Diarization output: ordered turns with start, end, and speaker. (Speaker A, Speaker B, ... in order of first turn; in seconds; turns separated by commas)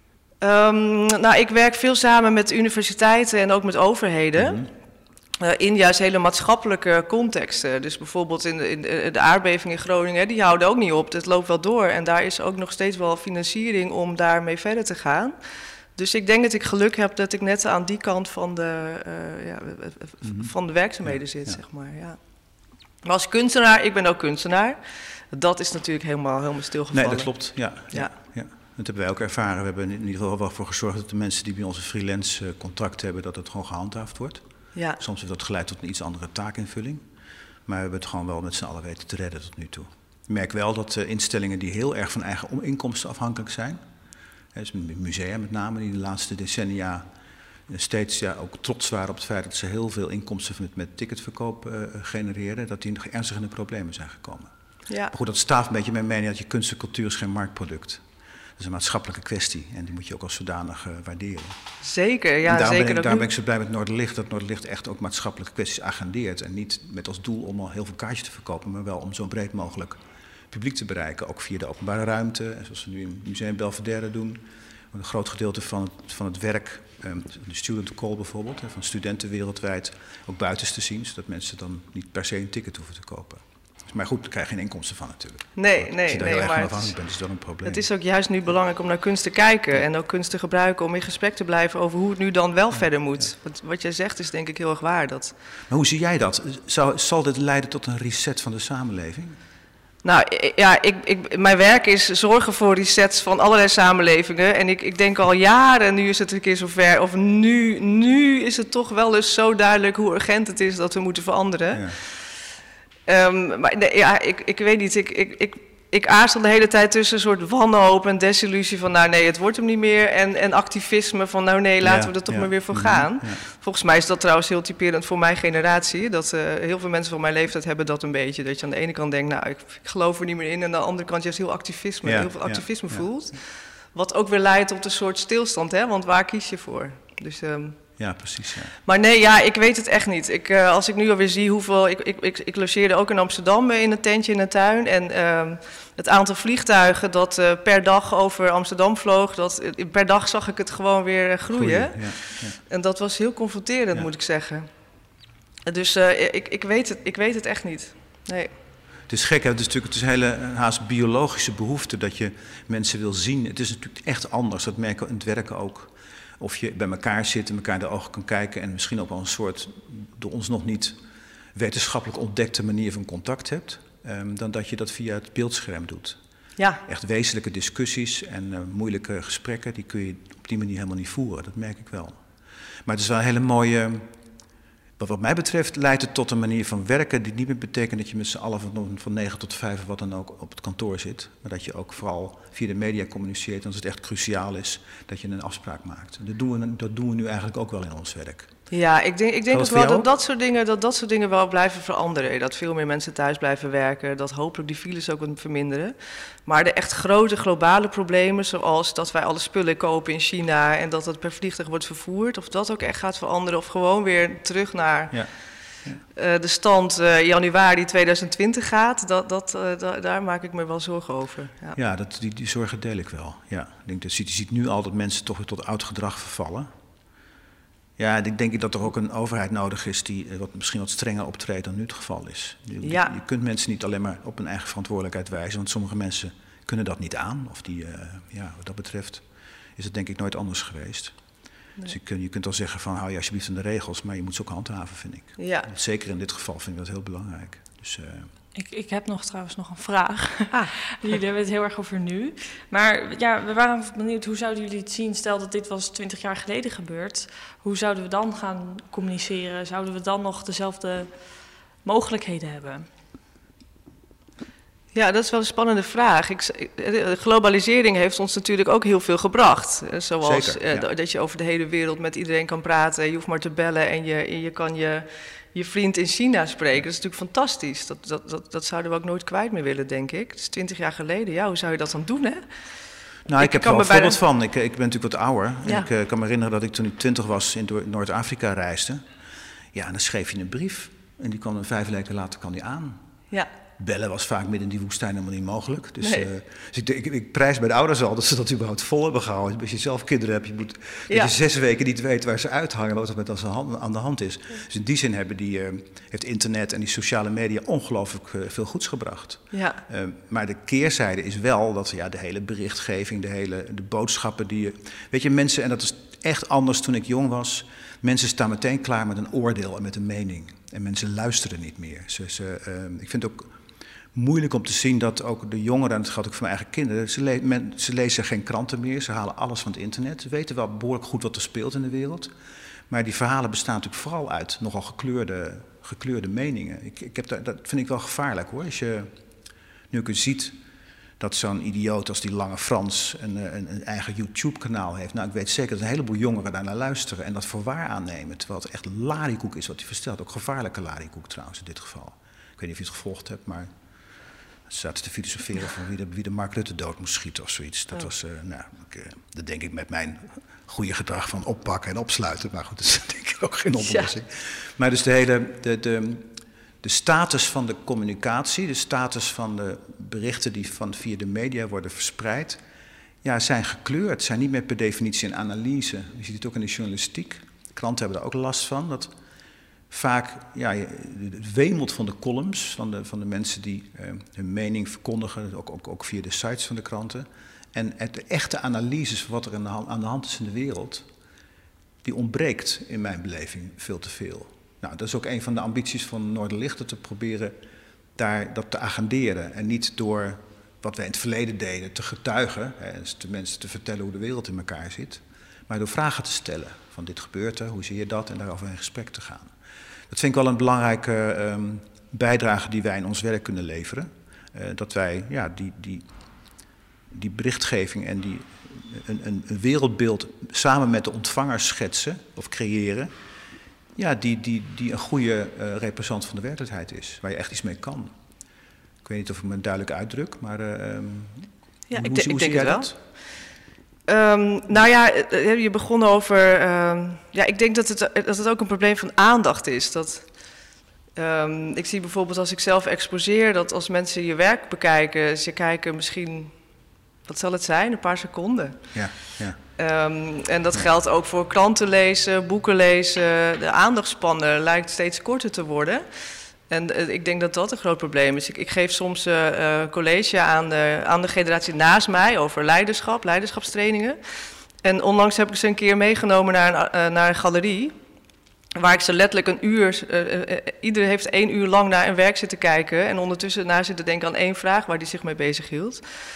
Speaker A: 0.4-4.6, Speaker B: 4.4-4.7, Speaker A: 5.4-15.3, Speaker A: 16.0-22.2, Speaker B: 20.2-20.5, Speaker B: 21.0-21.6, Speaker A: 23.0-24.8, Speaker A: 25.3-28.1, Speaker B: 26.9-34.4, Speaker B: 35.0-37.0, Speaker B: 37.7-43.8, Speaker B: 44.5-47.1, Speaker B: 47.7-54.5, Speaker B: 55.1-58.0, Speaker B: 58.6-61.6, Speaker A: 61.8-63.2, Speaker B: 62.4-70.0, Speaker B: 70.5-74.4, Speaker B: 74.9-87.8, Speaker A: 85.6-87.0, Speaker A: 87.7-95.3, Speaker B: 95.7-99.4, Speaker A: 100.0-112.0, Speaker B: 111.7-112.0, Speaker A: 113.1-133.4, Speaker B: 121.8-123.4, Speaker B: 132.0-133.1, Speaker A: 133.9-137.8, Speaker B: 138.0-138.8, Speaker A: 138.9-154.7, Speaker B: 151.5-152.6, Speaker A: 155.7-158.5, Speaker B: 159.1-171.0, Speaker B: 171.5-176.2, Speaker B: 176.9-182.2, Speaker B: 182.9-184.1, Speaker B: 185.0-198.5, Speaker A: 198.7-205.9, Speaker B: 199.5-200.1, Speaker A: 206.5-215.4, Speaker A: 216.2-221.8, Speaker B: 221.8-226.7, Speaker B: 228.0-239.2, Speaker A: 232.8-233.1, Speaker B: 239.8-241.2, Speaker B: 241.8-248.3, Speaker A: 245.4-245.7, Speaker C: 248.6-261.1, Speaker C: 261.8-262.9, Speaker A: 264.9-282.4, Speaker B: 270.2-270.9, Speaker B: 283.3-289.0, Speaker A: 283.4-284.2, Speaker B: 289.7-293.0, Speaker B: 293.8-323.5, Speaker A: 296.0-296.3, Speaker A: 309.5-309.8, Speaker B: 324.1-332.3, Speaker B: 332.9-339.1, Speaker B: 339.9-340.6, Speaker B: 341.2-353.7, Speaker B: 354.7-366.3, Speaker A: 363.8-364.1, Speaker B: 366.8-372.6, Speaker B: 373.2-379.1, Speaker B: 379.9-391.1, Speaker B: 392.0-397.6, Speaker B: 398.2-409.5, Speaker B: 410.1-416.1, Speaker B: 417.1-423.1, Speaker B: 423.9-428.1, Speaker B: 429.0-433.0, Speaker A: 431.9-432.9, Speaker A: 434.1-440.3, Speaker A: 441.2-446.6, Speaker A: 447.3-448.9, Speaker B: 448.9-449.6, Speaker A: 449.8-456.1, Speaker A: 456.7-464.2, Speaker A: 464.8-467.9, Speaker A: 468.8-476.0